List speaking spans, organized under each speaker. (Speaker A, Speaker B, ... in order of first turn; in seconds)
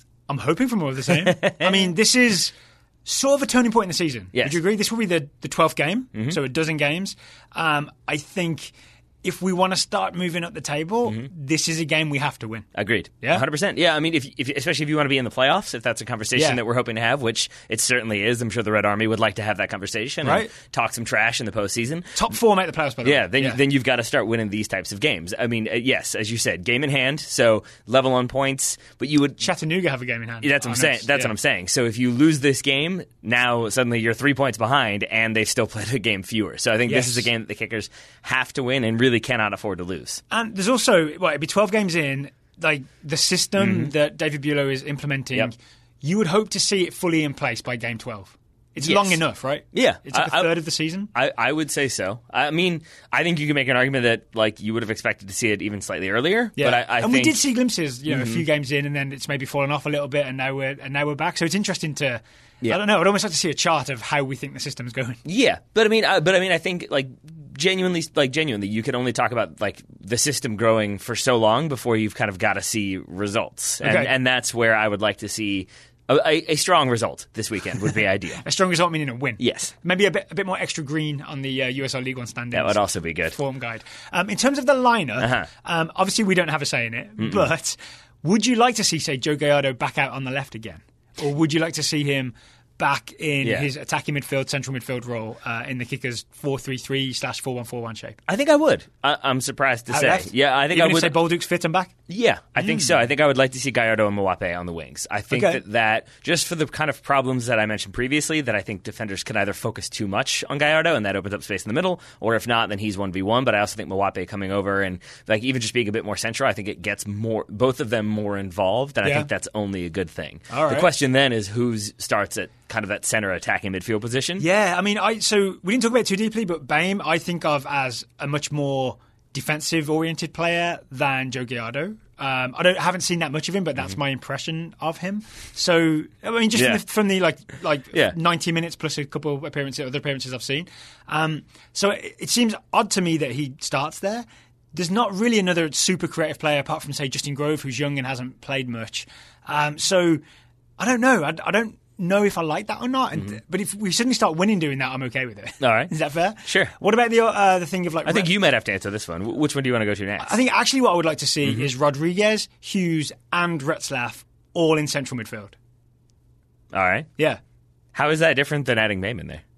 Speaker A: 0.3-2.5, 3.0-12.7, 16.3-16.6, 20.2-20.5, 22.1-23.6, 29.4-31.3, 36.9-37.3, 40.3-51.1, 56.6-65.2, 73.8-74.1, 78.4-98.2, 99.9-101.9, 102.6-102.9, 105.3-105.6, 119.0-119.3, 120.5-120.9, 124.4-150.2, 150.8-158.3, 160.2-165.5
Speaker B: 1.2-1.9, 12.7-22.1, 23.0-29.4, 30.4-40.2, 43.6-43.9, 48.8-49.2, 49.7-50.5, 51.1-57.4, 58.1-58.4, 65.2-78.4, 79.4-79.7, 82.5-83.3, 85.2-85.5, 87.2-87.5, 93.4-93.7, 98.3-101.2, 102.1-124.4, 136.5-136.8, 155.6-155.9, 156.4-156.7, 158.0-160.4, 161.4-161.7, 166.7-167.1, 167.9-169.4